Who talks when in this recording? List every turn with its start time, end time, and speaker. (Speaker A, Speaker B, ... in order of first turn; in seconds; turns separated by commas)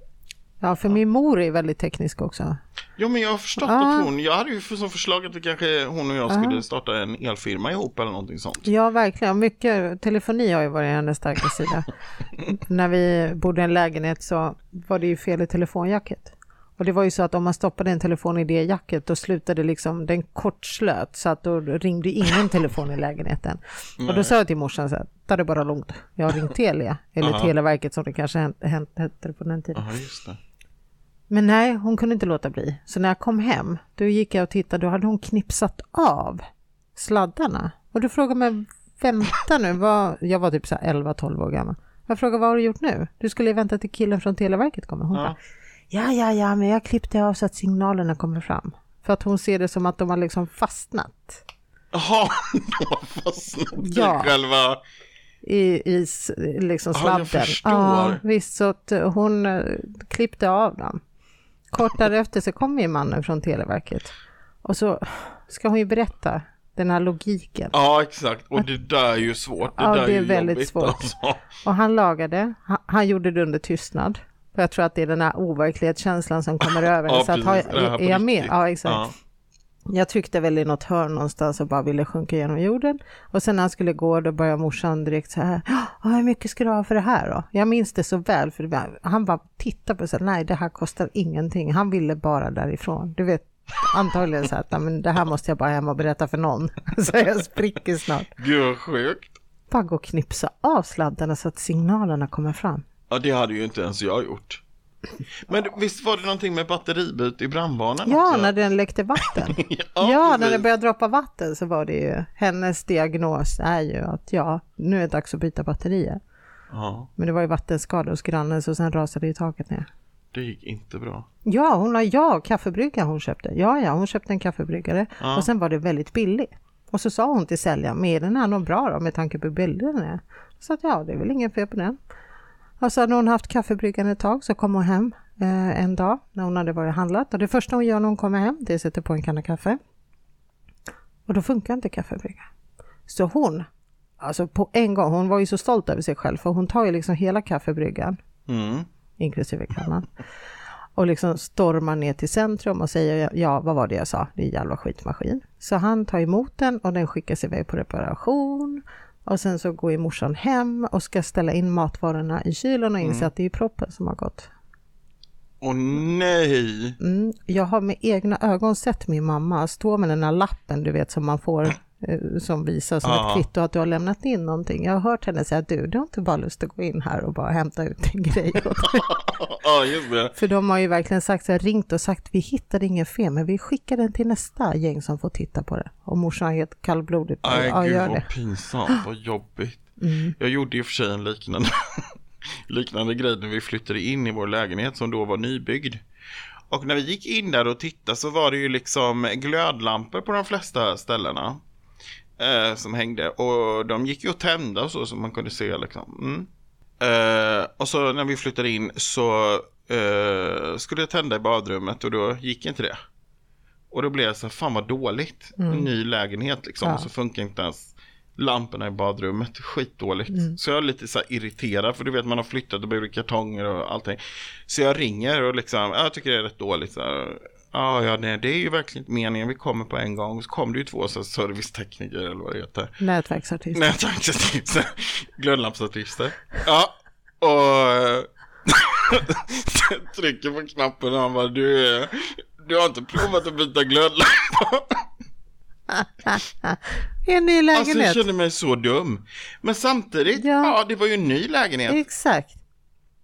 Speaker A: 0.6-2.6, Speaker B: 3.0-8.7, Speaker A: 3.6-4.1, Speaker A: 6.3-6.6, Speaker A: 8.6-11.9, Speaker A: 12.4-29.9, Speaker B: 24.0-24.3, Speaker B: 27.2-27.5, Speaker B: 29.7-30.4, Speaker A: 31.3-36.4, Speaker A: 36.9-45.4, Speaker A: 45.9-51.4, Speaker B: 51.9-54.8, Speaker A: 53.8-54.3, Speaker A: 55.4-61.0, Speaker B: 56.9-58.2, Speaker A: 61.7-67.7, Speaker B: 67.7-71.4, Speaker A: 69.7-79.1, Speaker B: 76.8-79.1, Speaker A: 79.9-98.3, Speaker B: 98.3-99.3, Speaker A: 99.7-102.8, Speaker B: 103.1-104.6, Speaker B: 105.5-108.5, Speaker A: 108.0-116.2, Speaker B: 109.2-110.7, Speaker B: 116.7-117.1, Speaker A: 117.2-119.9, Speaker B: 120.3-121.3, Speaker A: 121.4-132.0, Speaker B: 125.2-125.5, Speaker A: 132.8-139.8, Speaker A: 141.3-142.5, Speaker A: 143.1-143.7, Speaker A: 144.2-148.2, Speaker B: 148.5-148.9, Speaker A: 149.2-150.1, Speaker A: 150.9-164.5, Speaker B: 163.0-163.3, Speaker B: 165.6-167.0, Speaker A: 167.0-179.1, Speaker B: 173.0-173.4, Speaker B: 178.8-180.3, Speaker A: 180.3-188.3, Speaker B: 187.4-196.0, Speaker A: 190.0-190.3, Speaker B: 196.7-201.6, Speaker B: 202.4-206.5, Speaker B: 207.0-213.0, Speaker B: 213.9-232.9, Speaker A: 215.6-215.9, Speaker A: 220.3-220.6, Speaker A: 233.0-233.9, Speaker B: 233.7-245.0, Speaker A: 245.9-248.2, Speaker B: 247.7-252.0, Speaker A: 250.3-250.7, Speaker A: 251.9-252.6